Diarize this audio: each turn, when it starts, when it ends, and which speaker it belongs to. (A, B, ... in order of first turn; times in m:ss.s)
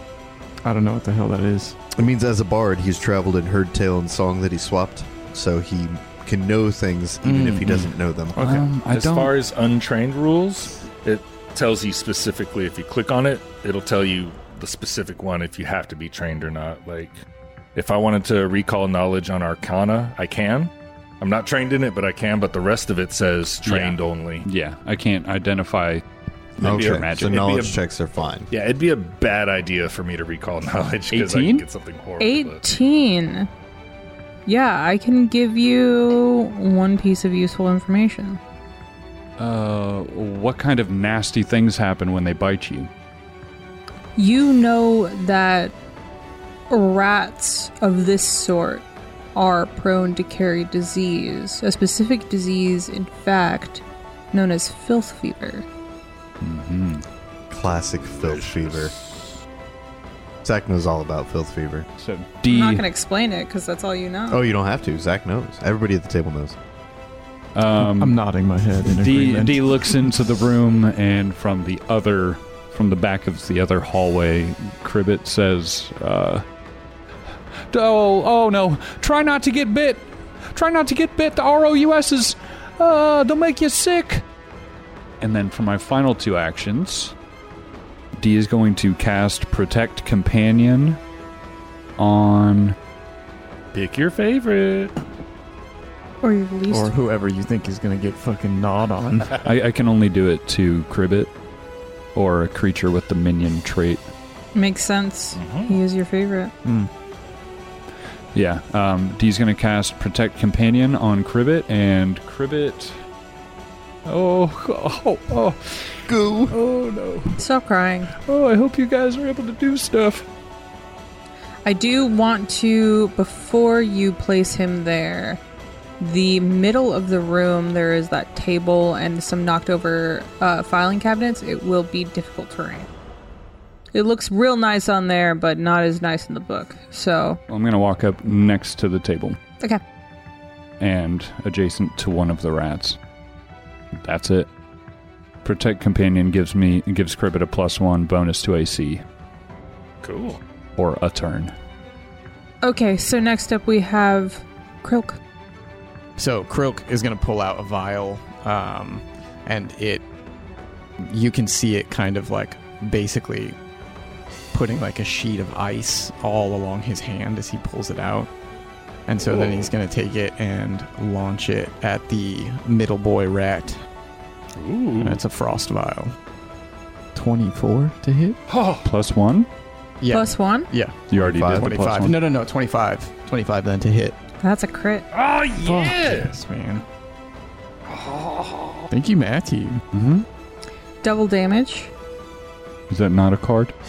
0:00.6-0:01.8 A
0:01.9-0:08.4 B
0:07.2-0:08.7 A
0:08.4-0:09.4 C
0:08.9-0:17.2 D
0:17.8-0:24.5 D
0:23.6-0:26.0 C
0:26.6-0:27.6 C
0:26.6-0:27.8 D
0:26.6-0:28.5 B
0:28.5-0:32.6 D
0:31.1-0:31.6 C
0:32.2-0:33.5 E
0:34.5-0:38.4 E
0:39.4-0:42.9 C
0:44.2-0:45.8 E
0:46.7-0:55.7 E
0:56.4-0:57.0 C
0:57.5-0:58.9 B
0:57.9-0:59.4 D
1:00.4-1:01.9 B
1:02.0-1:02.8 C
1:02.5-1:04.4 E
1:04.3-1:06.6 B
1:07.6-1:08.2 C
1:07.8-1:09.9 A
1:08.8-1:16.4 C
1:17.7-1:24.2 C
1:25.2-1:27.1 C
1:28.2-1:31.0 C
1:32.0-1:32.8 C
1:33.7-1:35.0 D
1:36.2-1:36.9 E
1:36.7-1:39.4 A
1:39.4-1:41.3 C
1:42.2-1:44.0 C
1:44.6-1:46.5 E
1:45.4-1:45.8 D
1:46.6-1:46.9 A
1:48.3-1:53.0 C
1:54.1-1:57.4 C
1:56.1-1:56.6 B
1:57.4-1:58.1 E
1:58.2-2:00.3 C
2:01.6-2:05.4 E
2:06.0-2:12.9 E
2:13.9-2:17.4 E
2:17.5-2:19.4 C
2:20.8-2:23.0 C
2:24.0-2:24.5 C
2:25.4-2:29.0 C
2:30.0-2:30.4 D
2:30.8-2:31.5 C
2:32.6-2:35.2 E
2:36.2-2:40.0 A
2:41.0-2:43.6 A
2:44.5-2:48.3 A
2:49.1-2:53.8 A
2:49.2-2:49.7 D
2:54.6-2:55.2 D
2:55.0-2:56.2 A
2:57.1-2:58.4 A
2:58.5-2:58.9 D
2:58.8-2:59.5 C
3:00.0-3:04.2 A
3:00.1-3:00.7 E
3:01.1-3:02.2 C
3:01.2-3:01.8 B
3:04.4-3:05.1 E
3:05.1-3:06.4 D
3:05.6-3:06.8 A
3:07.9-3:08.9 D
3:08.9-3:09.8 A
3:09.9-3:10.3 C
3:11.0-3:11.9 E
3:12.9-3:13.7 C